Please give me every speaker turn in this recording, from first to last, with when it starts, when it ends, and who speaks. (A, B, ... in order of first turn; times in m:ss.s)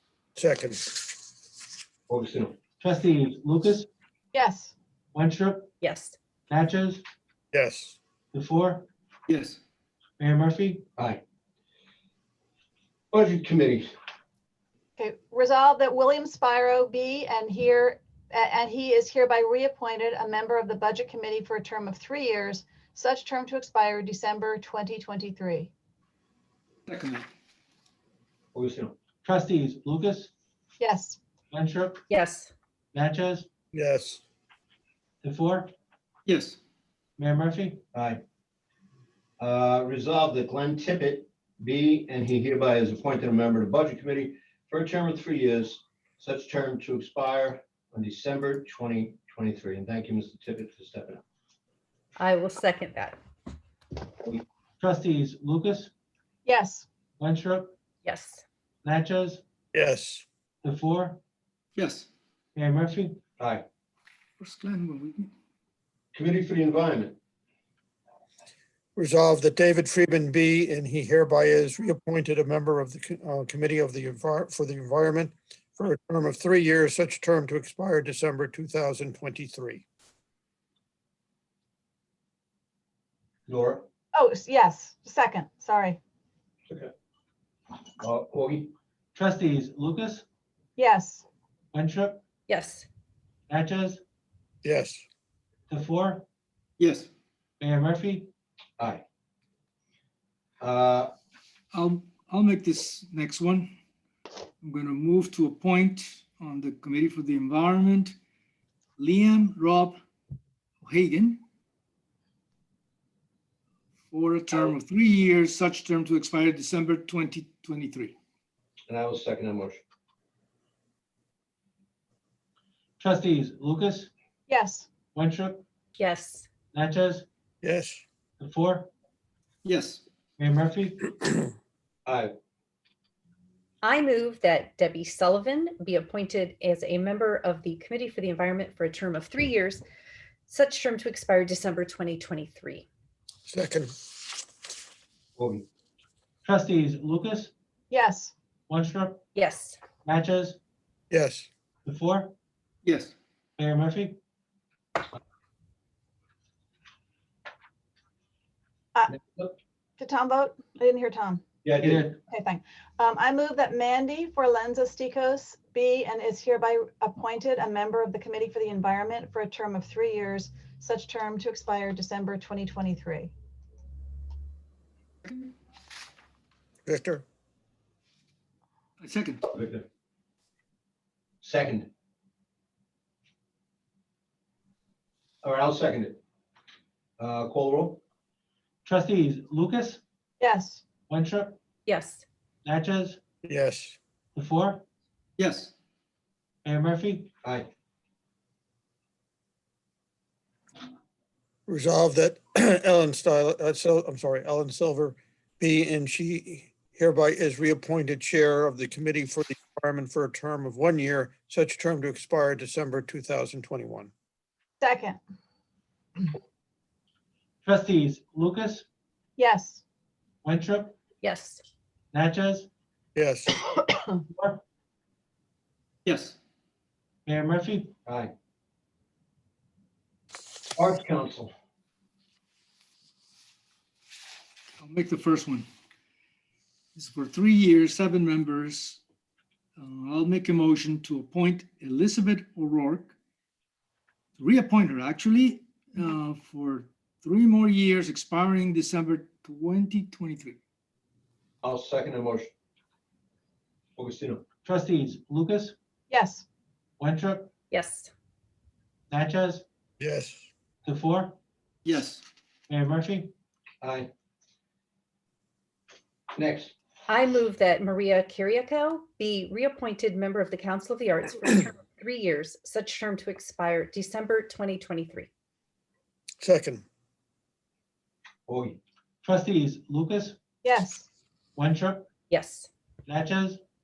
0:00.4-0:01.0 A
0:02.1-0:02.6 B
0:02.8-0:03.9 C
0:04.3-0:04.7 D
0:05.1-0:05.7 C
0:05.8-0:06.2 E
0:06.5-0:07.0 C
0:07.5-0:08.0 A
0:08.3-0:08.9 C
0:09.3-0:09.6 F
0:10.2-0:10.8 C
0:13.1-0:13.9 B
0:15.0-0:25.7 D
0:26.9-0:27.2 F
0:28.5-0:28.9 B
0:29.2-0:30.3 C
0:30.8-0:31.2 D
0:31.5-0:32.0 C
0:32.1-0:32.5 E
0:32.9-0:33.5 C
0:33.7-0:34.2 A
0:35.2-0:35.7 C
0:36.3-0:36.6 F
0:37.2-0:37.8 C
0:37.9-0:38.2 B
0:39.4-0:51.2 B
0:52.2-0:53.2 E
0:54.8-0:55.9 C
0:56.4-0:56.8 D
0:57.2-0:57.7 C
0:58.0-0:58.4 E
0:58.8-0:59.4 C
0:59.7-1:00.2 A
1:00.6-1:01.2 C
1:01.8-1:02.1 F
1:02.6-1:03.2 C
1:03.4-1:03.6 B
1:04.4-1:05.3 F
1:06.1-1:07.2 B
1:09.0-1:19.8 A
1:23.5-1:23.8 B
1:24.1-1:26.0 D
1:28.0-1:28.7 B
1:29.1-1:30.2 C
1:30.8-1:31.2 D
1:31.7-1:32.2 C
1:32.5-1:32.8 E
1:33.5-1:34.0 C
1:34.6-1:35.0 A
1:35.7-1:36.2 C
1:36.8-1:37.1 F
1:37.6-1:38.3 C
1:40.6-1:41.1 B
1:41.7-1:43.7 F
1:44.6-1:48.1 F
1:49.0-1:50.0 F
1:50.8-1:51.4 F
1:54.1-1:58.1 F
1:58.9-1:59.8 B
2:03.0-2:04.1 C
2:04.5-2:04.9 D
2:05.1-2:05.6 C
2:06.0-2:06.5 E
2:06.7-2:07.2 C
2:07.6-2:08.0 A
2:08.4-2:08.9 C
2:09.6-2:10.0 F
2:10.4-2:11.1 C
2:12.0-2:12.3 B
2:13.8-2:19.8 E
2:20.5-2:22.8 E
2:23.5-2:23.9 A
2:25.4-2:25.6 B
2:26.4-2:27.5 C
2:27.9-2:28.3 D
2:28.7-2:29.2 C
2:29.3-2:29.8 E
2:30.0-2:30.6 C
2:31.1-2:31.5 A
2:31.8-2:32.3 C
2:32.8-2:33.1 F
2:33.6-2:34.2 C
2:39.1-2:39.5 B
2:40.0-2:41.5 D
2:41.6-2:42.1 B
2:41.8-2:42.1 C
2:42.2-2:53.3 D
2:55.2-2:55.5 F
2:56.8-2:57.2 A
2:59.0-2:59.4 F
2:59.5-2:59.8 B
3:01.4-3:01.9 B
3:05.4-3:06.2 B
3:07.2-3:08.0 B
3:08.8-3:10.0 C
3:10.4-3:10.8 D
3:11.1-3:11.6 C
3:11.8-3:12.2 E
3:12.6-3:13.2 C
3:13.4-3:14.0 A
3:14.4-3:14.8 C
3:15.4-3:15.7 F
3:16.6-3:17.3 C
3:17.4-3:17.7 B
3:21.7-3:34.1 A
3:34.8-3:35.2 D
3:37.6-3:38.8 C
3:39.4-3:39.8 D
3:40.4-3:41.0 C
3:41.2-3:41.6 E
3:42.1-3:42.7 C
3:43.1-3:43.6 A
3:44.3-3:44.6 C
3:46.0-3:46.4 F
3:47.2-3:47.9 C
3:48.0-3:48.3 B
3:50.8-3:51.5 B
3:54.8-3:55.7 F
3:56.9-3:59.0 F
3:59.8-4:03.1 F
4:04.4-4:10.6 F
4:11.6-4:12.5 B
4:14.0-4:14.4 B
4:14.6-4:15.7 C
4:16.1-4:16.4 D
4:17.0-4:17.5 C
4:17.7-4:18.1 E
4:19.1-4:19.6 C
4:20.0-4:20.5 A
4:20.8-4:21.4 C
4:21.8-4:22.2 F
4:22.7-4:23.3 C
4:23.8-4:24.1 B
4:26.3-4:26.7 B
4:27.1-4:35.3 E
4:36.4-4:36.8 A
4:38.5-4:38.8 B
4:39.2-4:40.4 C
4:40.6-4:41.1 D
4:41.6-4:42.1 C
4:42.3-4:42.7 E
4:43.1-4:43.6 C